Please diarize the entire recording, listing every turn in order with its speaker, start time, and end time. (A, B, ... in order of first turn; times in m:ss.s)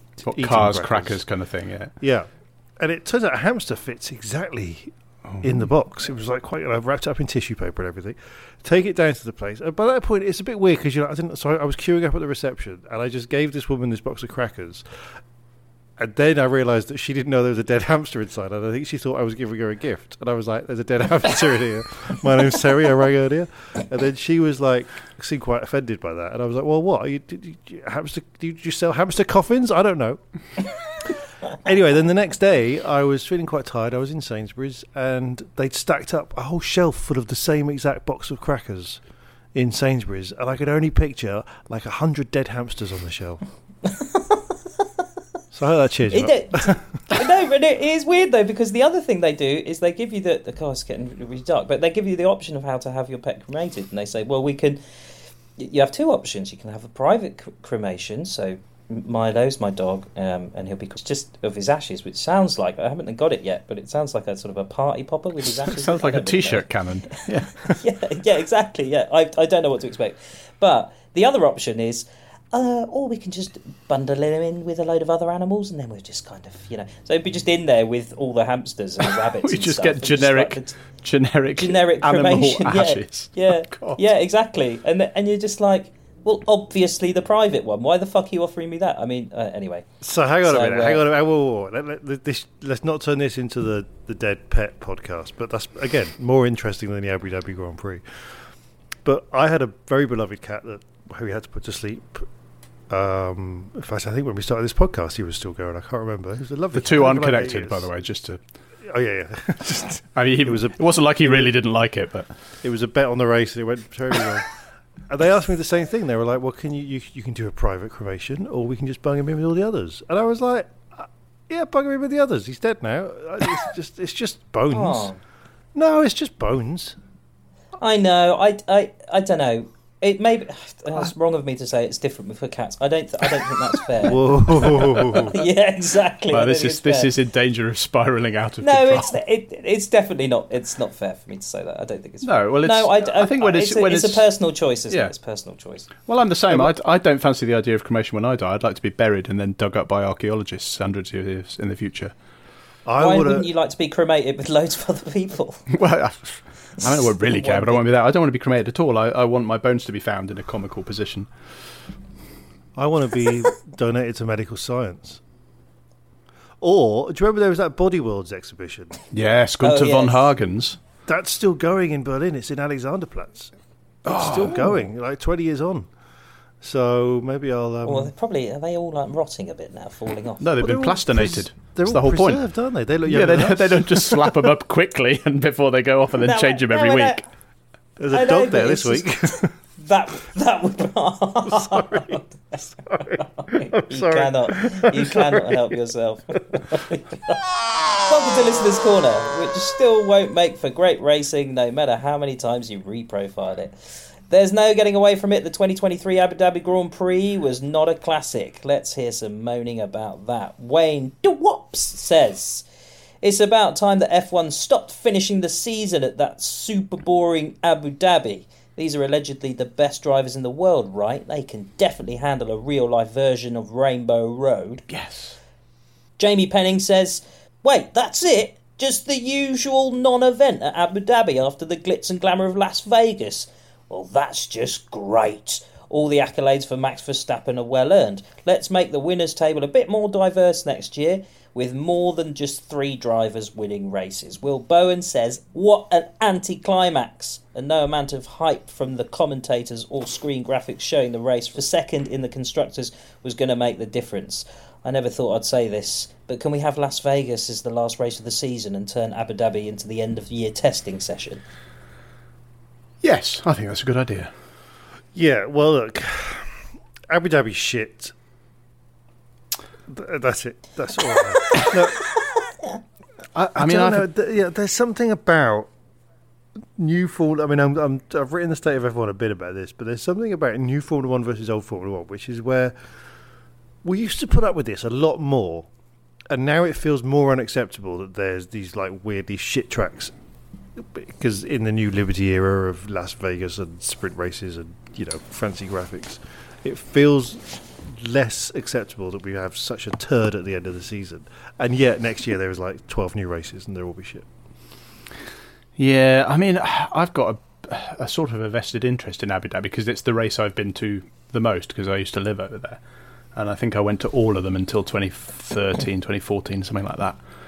0:00.2-0:01.9 A
0:00.2-0:01.2 B
0:02.0-0:14.8 B
0:05.3-0:05.6 A
0:16.0-0:30.2 B
0:31.0-0:39.0 B
0:39.5-0:43.4 B
0:43.8-0:44.4 C
0:45.5-0:46.8 B
0:46.1-0:54.8 C
0:55.6-1:20.8 C
1:05.5-1:07.8 A
1:19.0-1:24.0 A
1:21.6-1:29.9 C
1:30.0-1:38.0 B
1:30.4-1:31.0 C
1:39.0-1:42.3 B
1:42.9-1:47.9 B
1:46.7-1:48.4 A
1:48.8-1:51.5 B
1:50.2-1:52.3 A
1:52.6-1:54.5 B
1:55.1-2:05.1 B
2:04.7-2:05.2 C
2:05.7-2:07.0 B
2:07.8-2:17.1 C
2:14.0-2:15.4 B
2:16.3-2:19.2 A
2:18.6-2:25.9 C
2:22.2-2:24.3 A
2:26.0-2:32.1 A
2:26.5-2:26.7 B
2:32.8-2:33.5 B
2:33.0-2:35.6 C
2:35.7-2:41.3 A
2:36.8-2:37.8 C
2:42.8-2:45.2 B
2:46.6-2:49.0 B
2:49.1-2:50.8 A
2:49.6-2:50.2 C
2:51.0-2:53.5 B
2:54.0-2:55.9 B
2:54.0-2:54.8 A
2:56.6-2:58.1 B
2:57.8-3:00.4 C
3:00.4-3:02.4 A
3:00.6-3:04.5 B
3:03.0-3:07.2 A
3:06.2-3:07.2 C
3:08.0-3:09.5 B
3:08.1-3:17.4 C
3:11.5-3:12.2 B
3:12.8-3:15.7 B
3:18.0-3:23.8 C
3:24.3-3:32.6 C
3:33.2-3:44.8 C
3:44.9-3:45.4 A
3:46.2-4:21.4 C
4:23.0-4:24.3 A
4:25.1-4:26.6 B
4:27.1-4:28.1 B
4:29.9-4:32.0 B
4:33.3-4:34.1 A
4:33.5-4:35.7 B
4:36.8-4:42.7 B
4:43.8-4:45.7 B
4:46.3-4:50.1 B
4:50.8-5:04.3 B
5:05.8-5:12.8 A
5:13.3-5:17.2 A